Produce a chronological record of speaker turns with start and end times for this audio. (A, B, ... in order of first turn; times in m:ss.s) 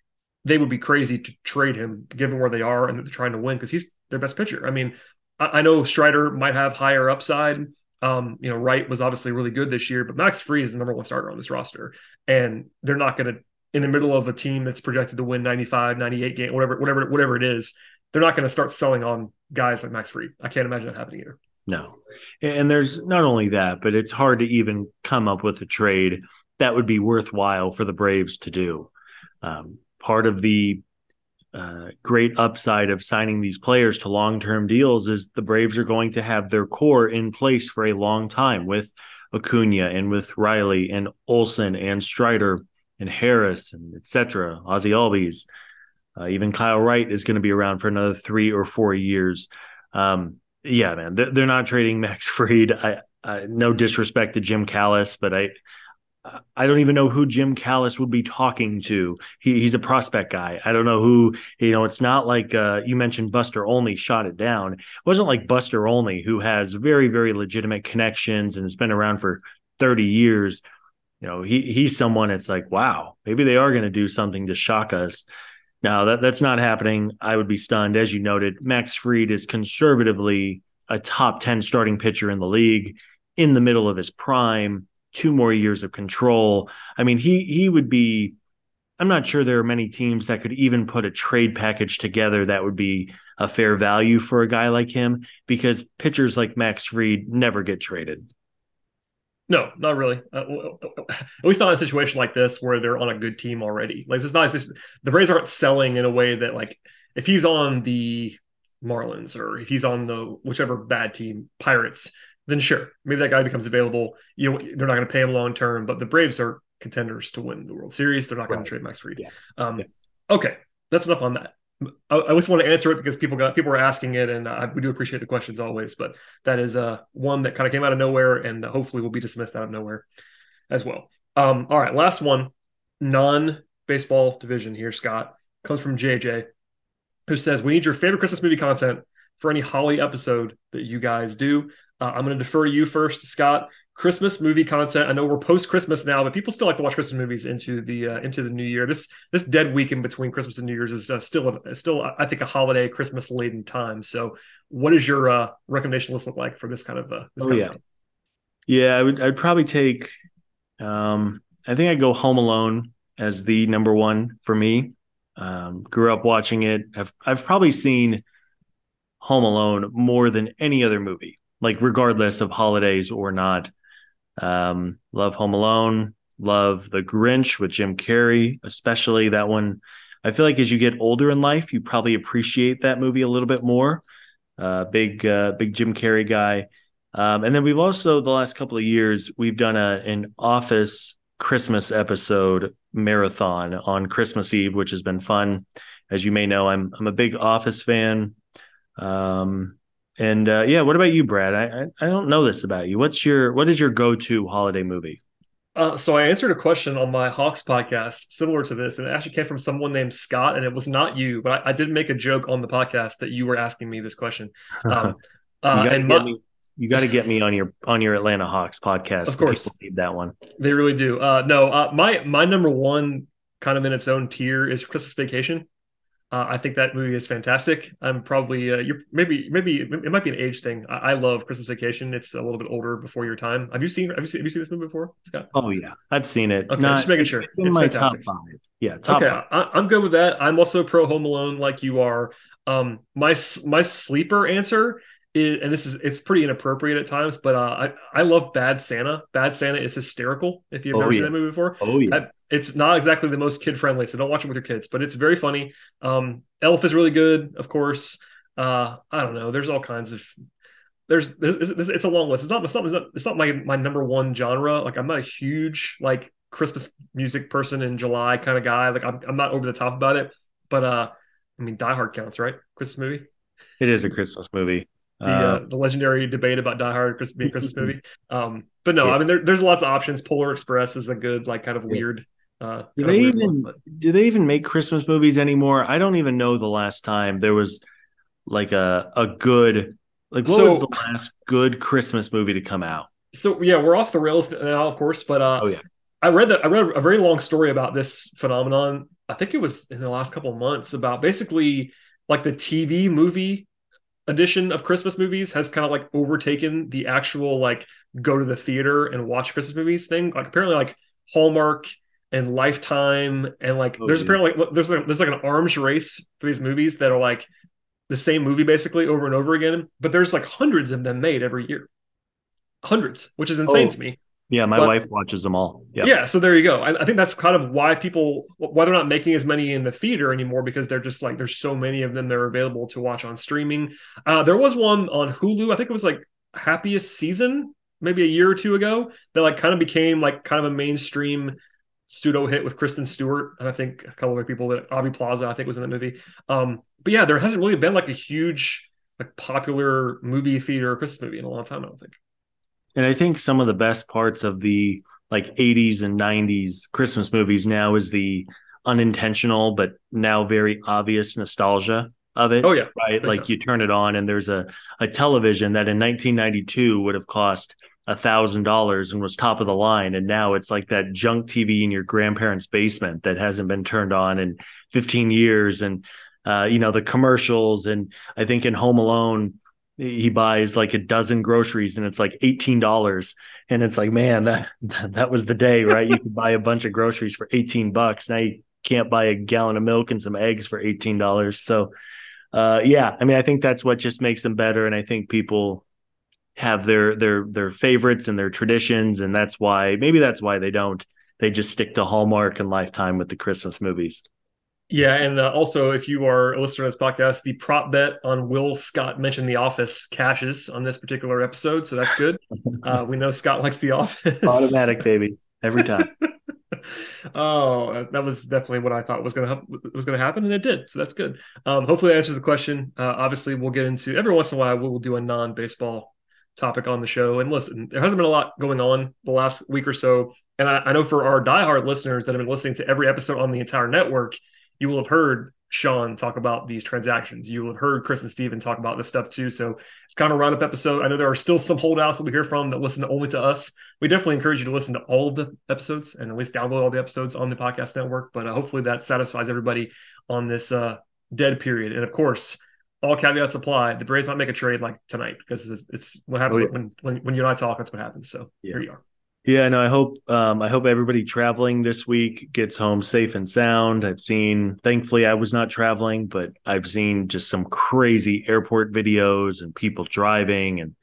0:00.4-0:21.4 A
0:21.7-0:28.9 B
0:29.4-0:30.8 B
0:31.5-0:45.5 B
0:46.2-0:55.5 B
0:56.2-1:10.6 B
1:11.2-1:15.3 B
1:15.8-1:28.4 B
1:29.0-1:38.3 B
1:39.5-2:10.0 A
2:10.7-2:16.4 A
2:17.3-2:37.8 A
2:37.4-2:37.8 B
2:38.7-2:40.1 B
2:40.8-2:48.2 B
2:49.2-2:53.7 B
2:54.4-3:04.0 B
3:04.6-3:18.4 B
3:19.0-3:25.2 B
3:25.8-3:36.3 A
3:35.7-3:40.3 B
3:39.3-3:39.7 A
3:40.6-3:45.6 A
3:46.3-3:55.5 A
3:55.5-3:59.4 B
3:56.7-3:58.2 A
3:59.1-4:20.3 A
4:10.9-4:12.2 B
4:21.1-4:33.3 A
4:33.8-4:35.6 B
4:35.2-4:43.8 A
4:37.4-4:37.9 B
4:43.0-4:47.8 B
4:48.4-4:53.1 B
4:50.4-4:51.0 A
4:53.3-4:55.7 A
4:56.2-5:03.6 A
5:04.3-5:17.5 A
5:14.0-5:14.4 B
5:18.1-5:21.9 A
5:22.8-5:24.2 A
5:23.7-5:24.0 B
5:24.5-5:26.1 B
5:26.0-5:41.6 A
5:42.1-5:52.2 A
5:53.0-6:31.9 B
6:02.6-6:03.5 A
6:32.5-6:35.8 B
6:36.6-6:44.2 B
6:44.9-6:54.9 A
6:54.4-6:56.1 B
6:57.3-7:39.0 A
7:39.4-7:50.9 B